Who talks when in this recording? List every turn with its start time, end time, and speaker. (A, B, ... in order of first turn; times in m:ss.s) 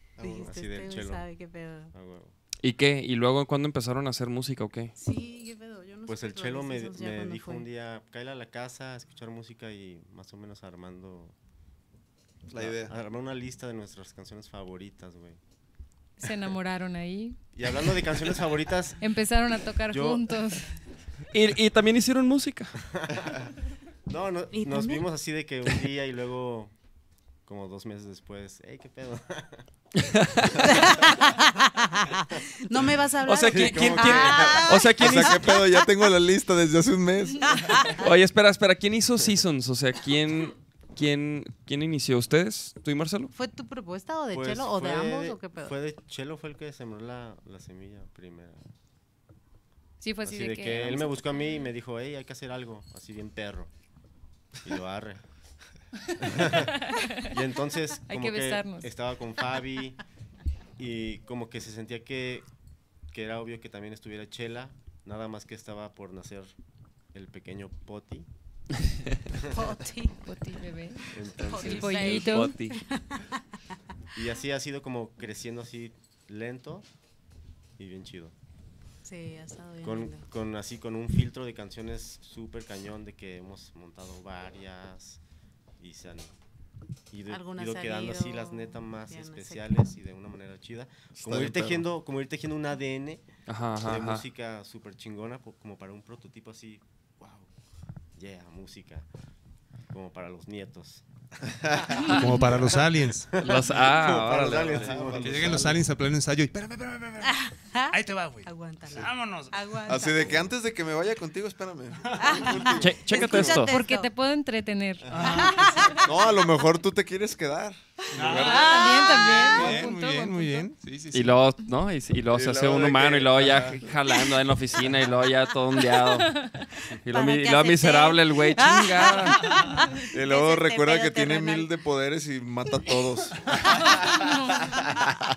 0:00.2-0:00.5 A
0:00.2-0:01.9 B
0:00.3-0:01.3 C
0:01.9-0:02.4 C
0:02.6-0:04.9 D
0:05.0-0:07.7 B
0:06.1-0:11.4 C
0:12.5-0:15.4 C
0:12.5-0:13.0 A
0:16.2-0:17.4 E
0:17.5-0:19.0 C
0:19.0-0:20.7 E
0:19.9-0:20.3 C
0:21.3-0:22.8 D
0:22.9-0:23.5 C
0:24.1-0:26.7 C
0:24.5-0:25.1 B
0:27.5-0:29.7 C
0:30.0-0:30.8 D
0:30.6-0:35.5 B
0:33.2-0:35.6 D
0:33.5-0:38.0 A
0:33.8-0:34.4 C
0:37.6-0:38.0 B
0:38.0-0:43.3 D
0:43.3-0:45.8 B
0:44.3-0:48.6 C
0:50.0-0:51.7 E
0:50.2-0:53.7 C
0:54.6-0:55.2 C
0:56.2-1:00.0 C
0:56.8-0:57.3 E
0:58.1-0:58.9 E
1:00.8-1:02.5 C
1:03.1-1:06.5 C
1:07.1-1:08.3 C
1:09.5-1:10.2 B
1:10.2-1:12.6 E
1:11.1-1:12.0 C
1:11.4-1:13.4 B
1:11.9-1:12.8 D
1:14.2-1:16.9 C
1:17.8-1:18.3 C
1:19.0-1:20.2 B
1:19.8-1:25.2 C
1:25.8-1:26.3 C
1:27.1-1:33.2 C
1:27.3-1:29.7 B
1:31.2-1:31.8 A
1:33.5-1:34.2 D
1:33.8-1:37.5 C
1:38.2-1:39.1 C
1:39.9-1:45.8 C
1:42.1-1:43.3 F
1:43.4-1:44.9 D
1:43.7-1:45.8 A
1:45.2-1:47.4 F
1:47.2-1:50.4 B
1:47.9-1:49.6 F
1:49.9-1:53.6 A
1:52.1-1:52.5 F
1:52.2-1:54.1 B
1:52.8-1:53.7 D
1:53.4-1:55.1 E
1:55.1-1:55.9 F
1:55.2-1:56.0 B
1:56.0-1:59.8 A
1:58.1-2:01.4 F
1:58.3-2:00.6 E
1:58.9-1:59.3 B
2:01.1-2:06.4 D
2:02.3-2:03.9 A
2:06.2-2:06.7 E
2:07.0-2:09.5 D
2:07.1-2:11.7 B
2:09.7-2:10.0 E
2:10.1-2:13.7 A
2:13.9-2:14.7 E